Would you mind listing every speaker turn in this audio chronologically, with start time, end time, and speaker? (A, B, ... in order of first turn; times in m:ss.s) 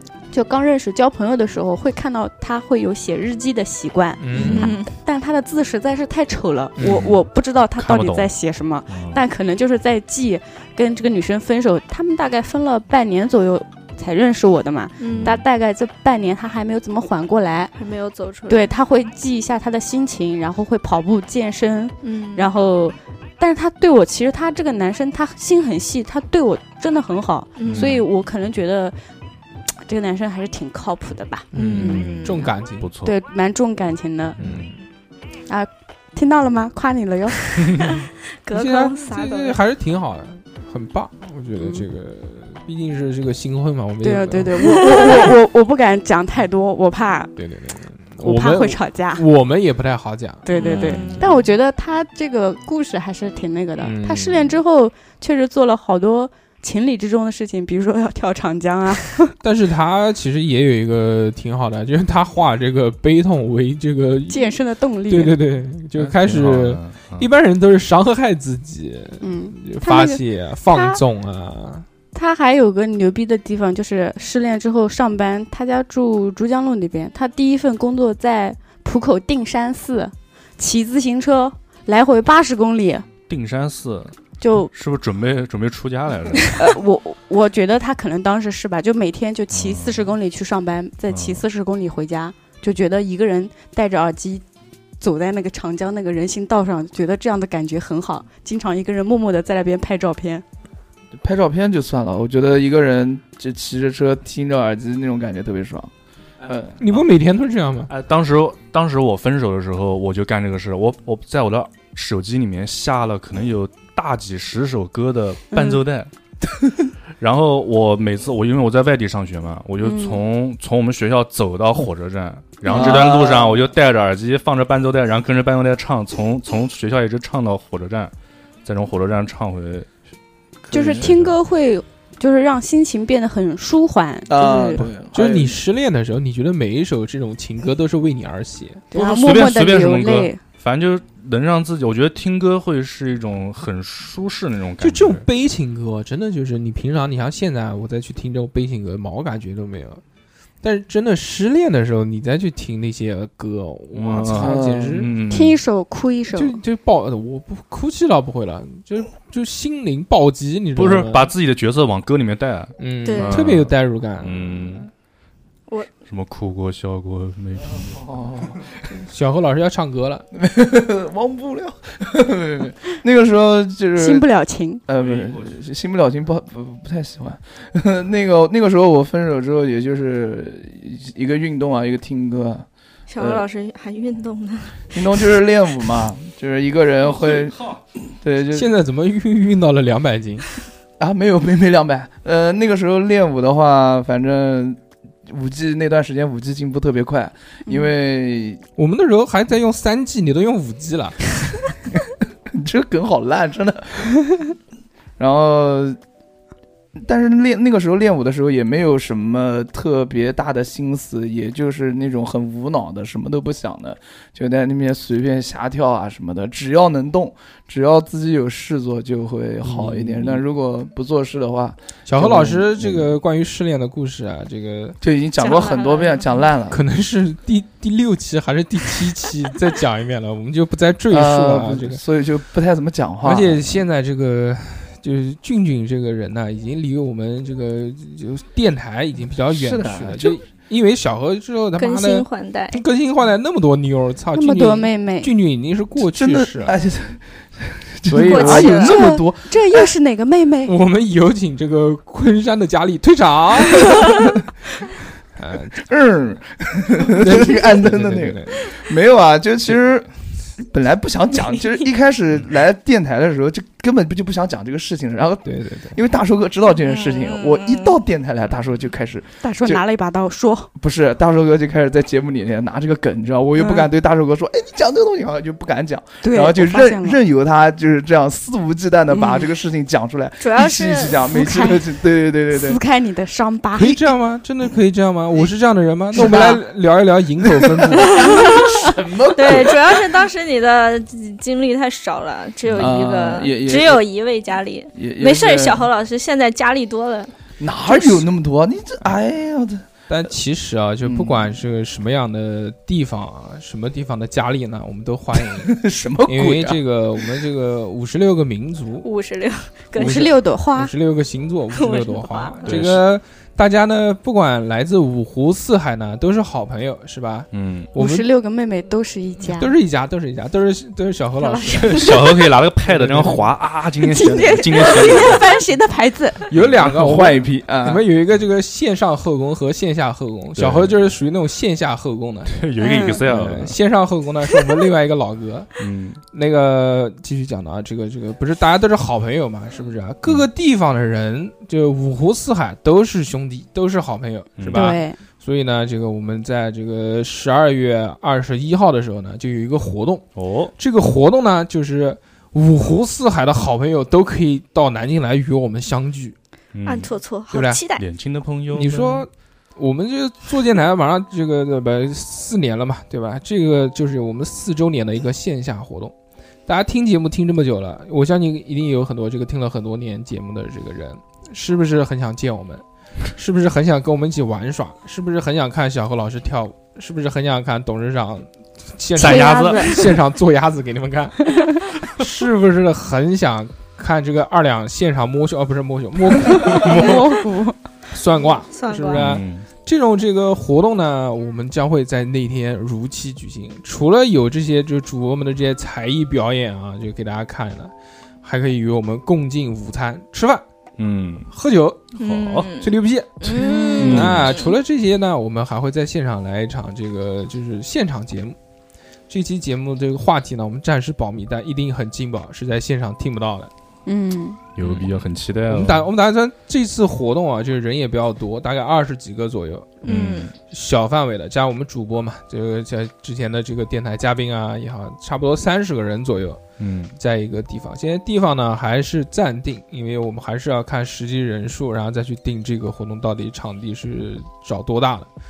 0:00.3-0:17.7 A
0:04.2-0:04.8 B
0:04.5-0:04.9 C
0:06.8-0:07.1 B
0:06.9-0:07.1 D
0:07.8-0:08.3 D
0:08.9-0:09.2 D
0:15.0-0:15.4 C
0:15.1-0:15.4 D
0:17.8-0:18.7 C
0:18.5-0:29.0 A
0:22.0-0:22.5 C
0:27.6-0:27.9 C
0:27.7-0:28.0 D
0:29.9-0:32.1 A
0:31.5-0:32.9 B
0:31.6-0:32.5 C
0:31.8-0:33.1 D
0:33.0-0:34.4 A
0:34.4-0:34.7 D
0:34.4-0:34.8 B
0:35.5-0:37.4 A
0:38.4-0:39.6 C
0:38.5-0:44.8 B
0:44.0-0:47.3 A
0:44.8-0:45.2 C
0:47.4-0:51.1 B
0:48.2-0:49.2 A
0:50.5-0:59.3 A
0:50.5-0:51.2 C
0:50.7-0:51.2 D
0:53.8-0:54.6 B
0:59.4-1:11.9 B
1:04.3-1:05.4 A
1:06.0-1:07.3 D
1:09.2-1:11.0 A
1:12.1-1:23.1 A
1:23.3-1:24.1 D
1:24.4-1:24.7 A
1:24.7-1:26.8 D
1:26.6-1:34.4 A
1:29.5-1:30.0 D
1:31.1-1:31.4 D
1:35.0-1:40.4 A
1:41.1-1:45.9 E
1:46.4-1:46.8 E
1:46.8-1:47.9 B
1:47.9-1:56.1 D
1:55.5-1:55.8 A
1:57.2-2:08.1 D
1:59.8-2:00.2 A
2:02.7-2:03.7 E
2:02.7-2:03.0 A
2:08.6-2:09.9 D
2:10.7-2:11.4 D
2:10.7-2:11.1 E
2:10.7-2:14.8 A
2:14.3-2:15.6 E
2:14.8-2:18.8 B
2:18.9-2:20.4 A
2:18.9-2:25.2 D
2:24.8-2:30.0 B
2:30.6-2:35.1 B
2:33.9-2:35.6 D
2:34.3-2:35.1 E
2:35.3-2:36.6 A
2:36.3-2:41.3 B
2:40.8-2:44.9 D
2:42.8-2:44.9 B
2:43.0-2:43.4 C
2:46.0-2:48.0 D
2:47.9-2:48.6 E
2:49.1-2:50.2 B
2:50.3-2:54.3 E
2:54.0-2:54.8 A
2:54.9-3:02.7 E
2:55.1-2:55.4 D
3:03.1-3:05.2 C
3:03.2-3:03.4 E
3:04.9-3:08.7 E
3:08.5-3:10.5 B
3:11.0-3:18.6 E
3:18.8-3:21.4 B
3:22.5-3:24.2 E
3:25.2-3:26.0 E
3:27.0-3:43.1 E
3:39.6-3:40.4 B
3:42.1-3:45.0 B
3:45.0-3:46.8 E
3:45.4-3:46.4 C
3:46.7-3:52.0 B
3:51.1-3:53.6 E
3:53.2-4:06.8 B
3:59.5-4:00.4 E
4:01.8-4:02.8 C
4:04.3-4:05.3 A
4:06.0-4:09.9 E
4:08.1-4:08.9 B
4:08.3-4:09.0 C
4:08.5-4:10.7 A
4:10.7-4:14.1 B
4:15.4-4:15.8 B
4:15.8-4:20.1 E
4:17.1-4:18.7 B
4:20.6-4:29.8 E
4:25.4-4:26.0 B
4:26.8-4:28.0 C
4:29.4-4:30.7 A
4:30.8-4:42.8 E
4:33.6-4:33.9 A
4:36.2-4:37.2 A
4:39.1-4:39.5 A
4:40.4-4:41.2 C
4:41.3-4:41.8 A
4:42.5-4:44.0 A
4:43.8-4:48.3 B
4:46.1-4:46.6 E
4:47.4-4:50.0 E
4:48.0-4:57.3 C
4:52.8-4:54.0 E
4:55.0-4:55.9 E
4:57.6-4:59.9 E
5:00.1-5:09.1 B
5:01.0-5:01.5 E
5:05.5-5:06.8 E
5:09.0-5:10.4 C
5:10.0-5:18.3 B
5:10.0-5:10.9 A
5:11.7-5:12.9 C
5:12.6-5:13.0 D
5:17.5-5:17.9 D
5:18.0-5:19.7 A
5:19.4-5:23.5 B
5:21.4-5:22.2 C
5:21.7-5:25.5 D
5:24.0-5:26.5 A
5:26.5-5:35.8 B
5:26.6-5:26.9 D
5:26.8-5:28.0 E
5:30.6-5:31.0 D
5:32.5-5:33.8 D
5:32.8-5:33.2 A
5:35.8-5:36.2 D
5:36.3-5:56.4 B
5:44.6-5:45.0 D
5:44.7-5:45.2 A
5:50.4-5:50.7 D
5:56.7-5:57.1 D
5:56.8-5:58.0 C
5:57.5-5:57.8 B
5:58.0-5:59.3 D
5:58.7-6:06.1 B
6:06.7-6:27.3 B
6:19.2-6:20.1 A
6:19.2-6:20.1 D
6:26.6-6:27.8 A
6:26.8-6:27.2 D
6:28.1-6:37.9 B
6:28.7-6:29.3 C
6:29.1-6:29.7 D
6:38.4-6:40.6 B
6:41.0-6:41.5 D
6:41.5-6:48.6 B
6:42.1-6:44.8 C
6:43.6-6:44.3 A
6:44.0-6:44.5 D
6:49.3-6:53.7 B
6:54.1-6:54.6 A
6:54.8-6:56.1 D
6:54.8-7:00.1 B
7:00.0-7:00.5 D
7:00.1-7:00.5 C
7:00.6-7:06.6 B
7:06.8-7:07.2 D
7:07.2-7:15.3 B